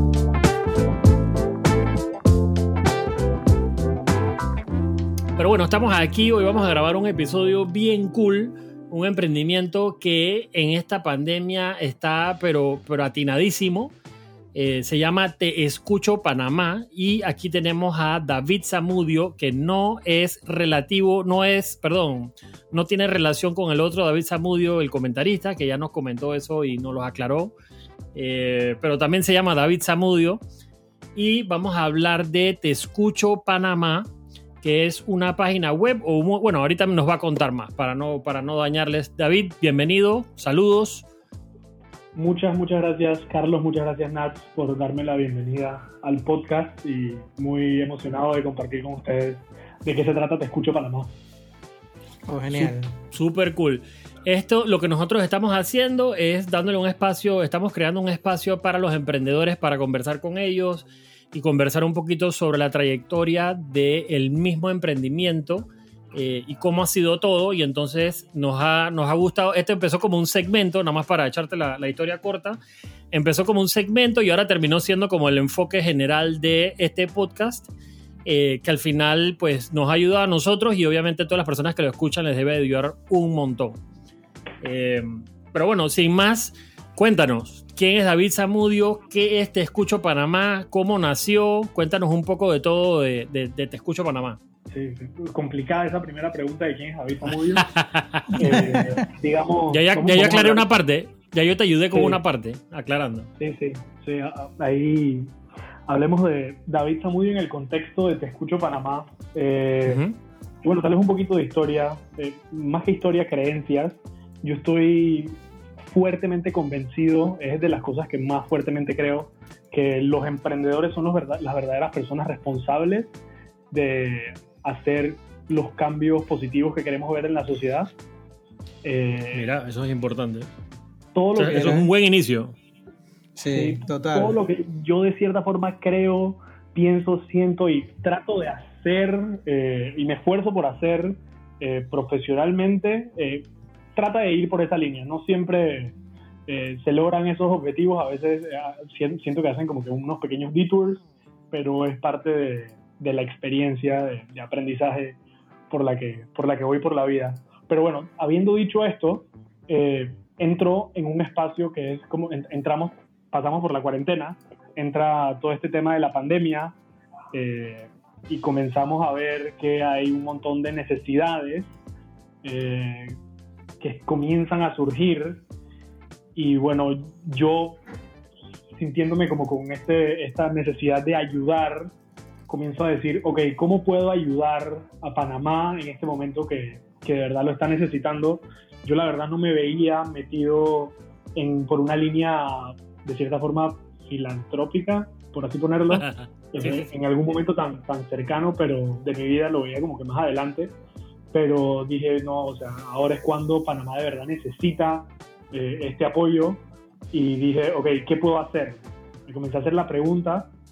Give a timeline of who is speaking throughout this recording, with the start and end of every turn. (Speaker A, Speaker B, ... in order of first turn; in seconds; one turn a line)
Speaker A: 5.4-13.9
Speaker A: 14.6-27.5
Speaker A: 28.1-30.4
Speaker A: 31.2-34.1
Speaker A: 34.6-41.1
Speaker B: 42.1-51.1
Speaker C: 52.3-52.9
Speaker A: 52.5-72.6
Speaker A: 73.1-77.7
Speaker A: 78.2-83.8
Speaker A: 84.6-94.4
Speaker B: 94.7-97.7
Speaker A: 97.2-98.8
Speaker B: 98.3-100.7
Speaker C: 98.4-98.9
Speaker A: 99.7-103.3
Speaker B: 101.9-102.2
Speaker B: 103.4-105.3
Speaker B: 105.9-110.0
Speaker A: 109.9-110.2
Speaker B: 110.6-123.1
Speaker B: 123.7-127.9
Speaker B: 128.8-129.5
Speaker A: 129.3-130.5
Speaker B: 131.1-131.8
Speaker A: 131.4-132.6
Speaker C: 131.5-131.9
Speaker C: 133.4-134.4
Speaker B: 133.5-145.9
Speaker B: 146.5-155.2
Speaker B: 155.7-166.8
Speaker B: 167.3-171.7
Speaker B: 172.4-173.2
Speaker B: 173.8-175.4
Speaker B: 176.4-177.8
Speaker B: 178.8-181.9
Speaker B: 182.5-200.7
Speaker A: 195.9-196.9
Speaker B: 201.3-210.5